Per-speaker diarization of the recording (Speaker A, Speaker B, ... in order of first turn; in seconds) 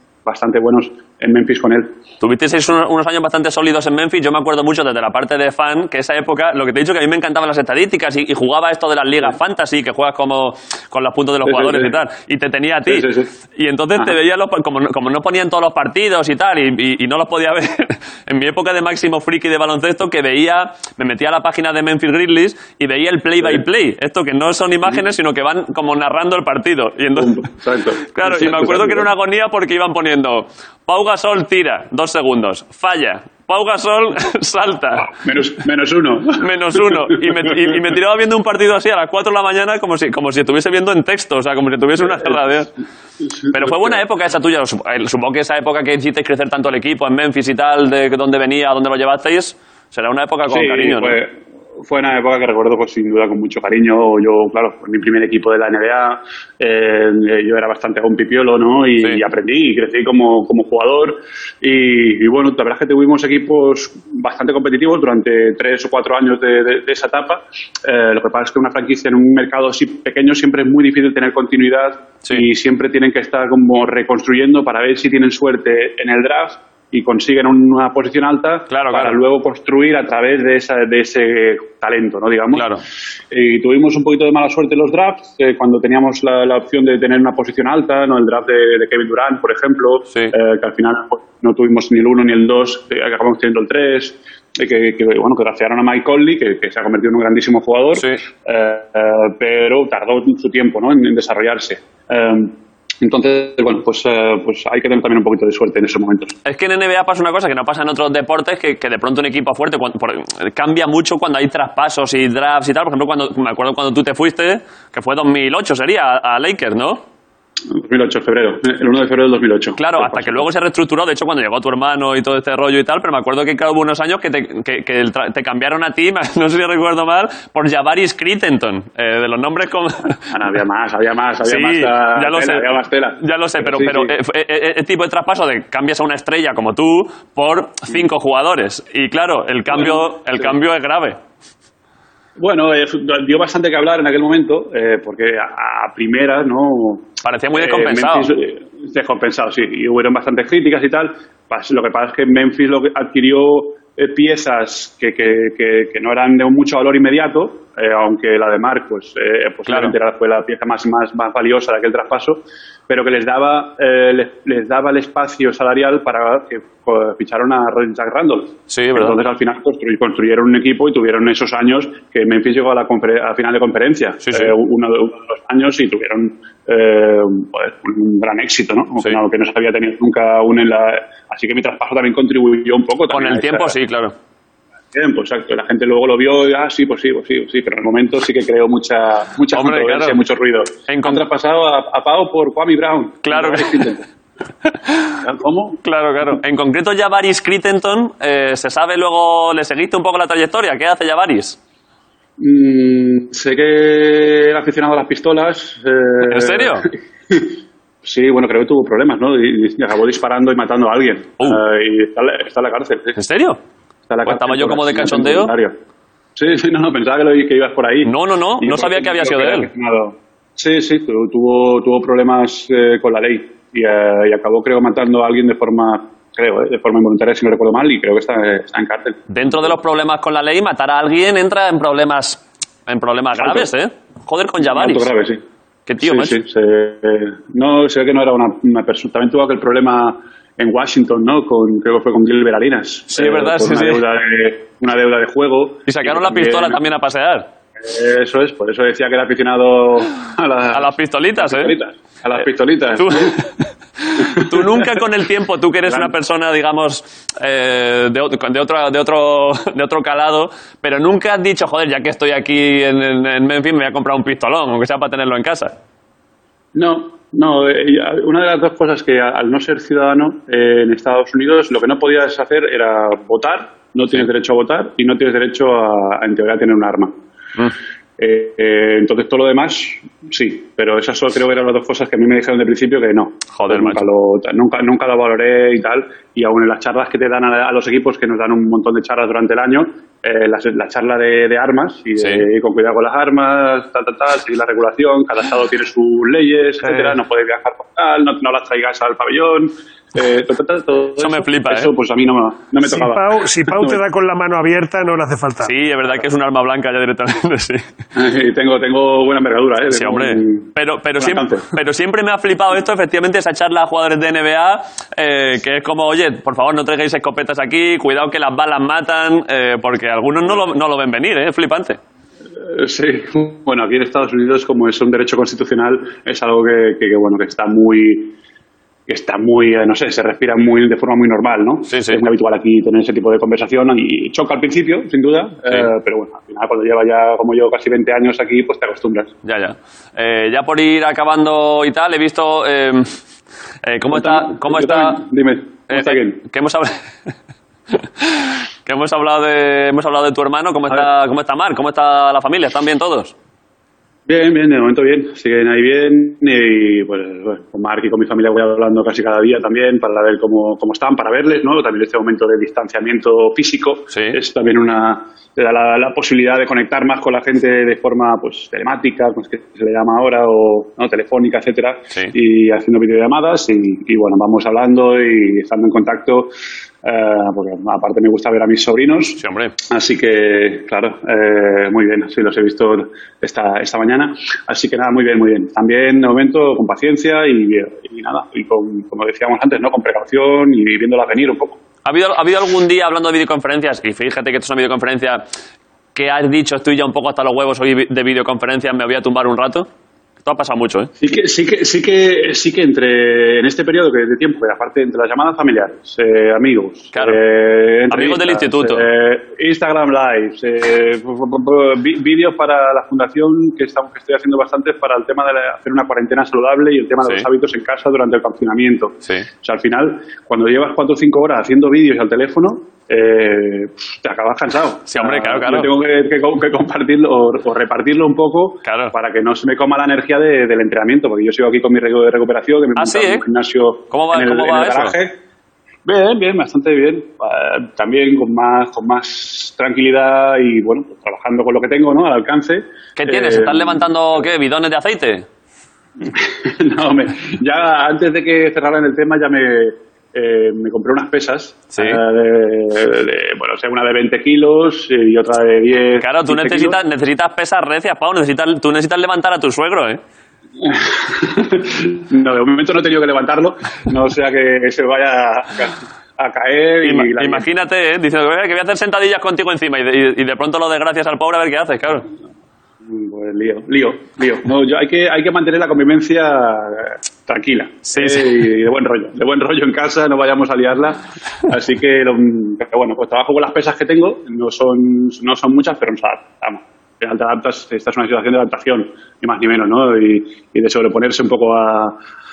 Speaker A: 0.3-1.9, 11.5-12.0, 12.9-13.3, 27.2-29.1, 35.0-37.8, 42.0-42.4, 43.2-44.0, 50.5-82.7, 83.3-106.4, 117.7-120.5, 130.3-134.2, 139.7-140.6, 142.4-183.8, 184.9-194.1, 195.2-195.8, 202.4-213.2, 214.1-215.8, 216.4-229.7, 233.4-233.7, 234.7-235.4, 236.0-246.8, 247.8-253.4, 254.2-255.0, 255.9-256.1, 266.8-277.1, 278.2-304.0, 308.2-311.7, 322.6-328.4, 329.1-339.3, 344.1-346.4, 354.3-376.5, 377.0-391.8, 401.2-435.4, 436.1-444.4, 446.2-457.0, 460.8-467.7, 473.0-492.2
Speaker B: 2.2-27.5, 28.1-35.1, 36.4-42.7, 43.5-51.2, 78.7-79.2, 82.5-82.8, 98.0-98.2, 106.5-117.0, 119.8-130.2, 131.4-141.2, 147.2-148.3, 159.7-159.9, 168.7-169.2, 174.2-174.5, 183.1-184.1, 189.5-190.2, 190.9-191.2, 193.2-193.9, 194.7-195.2, 195.8-201.6, 206.2-206.9, 213.2-213.6, 214.2-215.5, 218.0-219.7, 229.3-235.1, 235.9-236.4, 243.1-244.0, 245.9-247.5, 250.7-251.7, 253.0-265.7, 283.5-284.0, 292.2-292.4, 296.8-297.2, 301.2-301.9, 305.6-307.8, 309.9-322.0, 331.9-332.2, 339.4-343.1, 343.9-345.2, 345.9-347.0, 347.9-353.3, 364.1-364.4, 379.4-379.7, 392.1-395.4, 396.1-399.9, 400.4-401.1, 407.1-407.4, 408.1-409.1, 425.1-425.9, 428.9-429.1, 433.0-433.4, 434.1-435.1, 443.2-445.5, 451.9-452.2, 456.2-460.2, 467.0-472.3, 478.1-478.7
Speaker C: 302.8-305.7